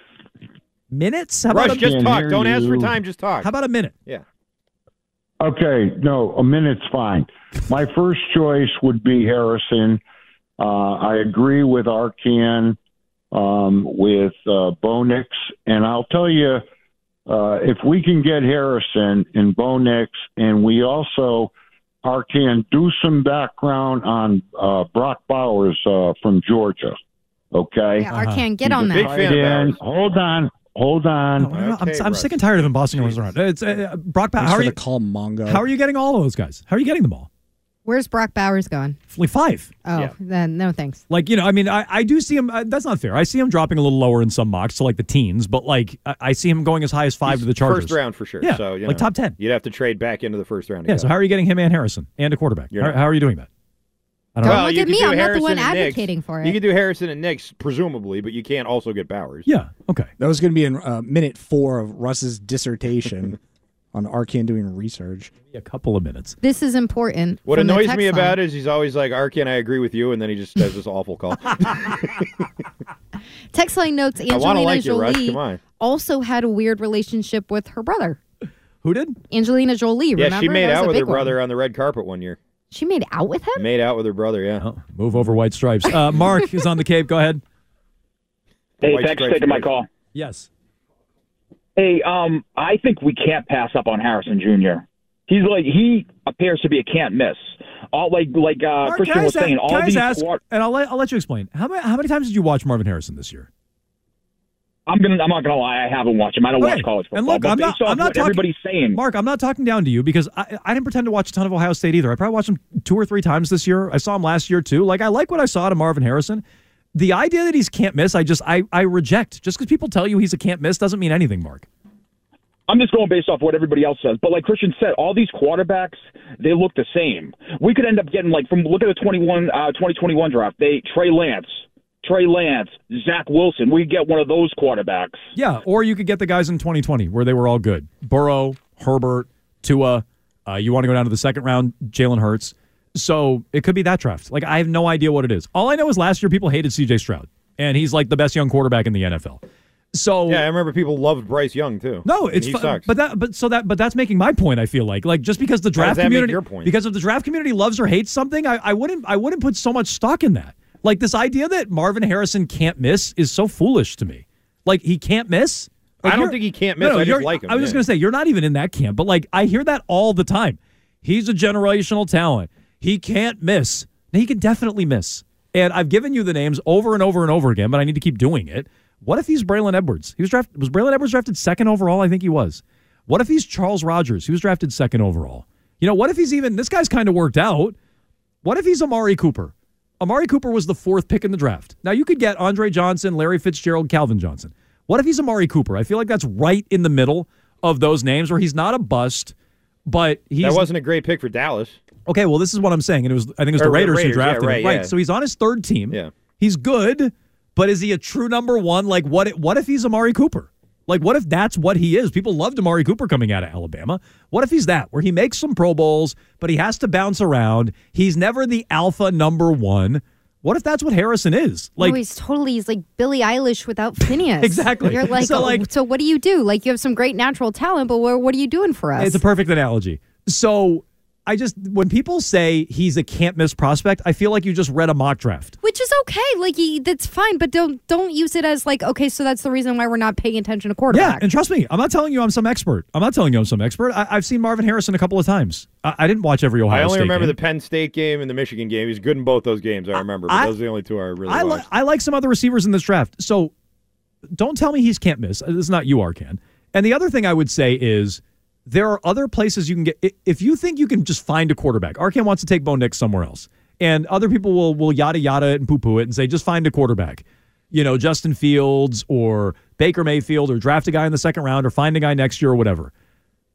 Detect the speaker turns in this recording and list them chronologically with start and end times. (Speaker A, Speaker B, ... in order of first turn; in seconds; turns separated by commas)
Speaker A: 0.9-1.8, Speaker B: 1.5-3.5, Speaker C: 1.7-2.9, Speaker A: 3.4-3.9, Speaker C: 5.4-10.0, Speaker C: 10.6-12.8, Speaker C: 13.3-16.6, Speaker C: 17.3-21.5, Speaker C: 22.0-27.0, Speaker C: 27.5-28.1, Speaker D: 28.0-29.1, Speaker A: 28.1-28.5, Speaker C: 28.7-31.5, Speaker B: 28.9-29.8, Speaker A: 31.4-34.8, Speaker B: 31.5-33.2, Speaker E: 34.4-35.6, Speaker A: 35.5-37.3, Speaker D: 37.8-39.0, Speaker A: 39.1-39.7, Speaker D: 39.8-41.0, Speaker A: 41.1-49.4, Speaker B: 47.3-51.1, Speaker A: 50.9-53.5, Speaker B: 52.7-53.0, Speaker A: 54.3-54.7, Speaker B: 54.4-59.5, Speaker D: 54.4-56.6, Speaker A: 59.5-60.1, Speaker E: 60.2-63.4, Speaker E: 63.9-65.3, Speaker A: 65.5-66.4, Speaker D: 66.4-68.4, Speaker B: 67.5-72.4, Speaker D: 73.5-78.2, Speaker B: 74.3-75.6, Speaker A: 78.8-79.2, Speaker D: 79.3-81.3, Speaker B: 80.2-82.4, Speaker D: 82.7-83.7, Speaker B: 83.5-84.6, Speaker A: 84.6-87.4, Speaker F: 88.8-89.9, Speaker B: 88.8-89.7, Speaker A: 90.1-90.5, Speaker F: 91.8-100.4, Speaker A: 98.8-103.5, Speaker F: 104.9-109.0, Speaker A: 106.6-116.4, Speaker A: 116.9-121.7, Speaker F: 122.7-135.2, Speaker A: 135.3-149.4, Speaker A: 149.9-150.4, Speaker B: 150.3-152.8, Speaker A: 152.0-187.7, Speaker B: 155.8-156.7, Speaker B: 166.0-167.8, Speaker A: 188.4-199.3, Speaker A: 199.8-200.6, Speaker B: 200.4-201.8, Speaker A: 202.1-222.0, Speaker B: 203.6-204.9, Speaker D: 221.8-229.2, Speaker A: 224.4-225.6, Speaker A: 229.0-235.5, Speaker D: 235.6-241.2, Speaker A: 240.9-247.3, Speaker B: 246.7-251.6, Speaker A: 249.9-250.5, Speaker A: 251.2-253.5, Speaker A: 254.3-272.9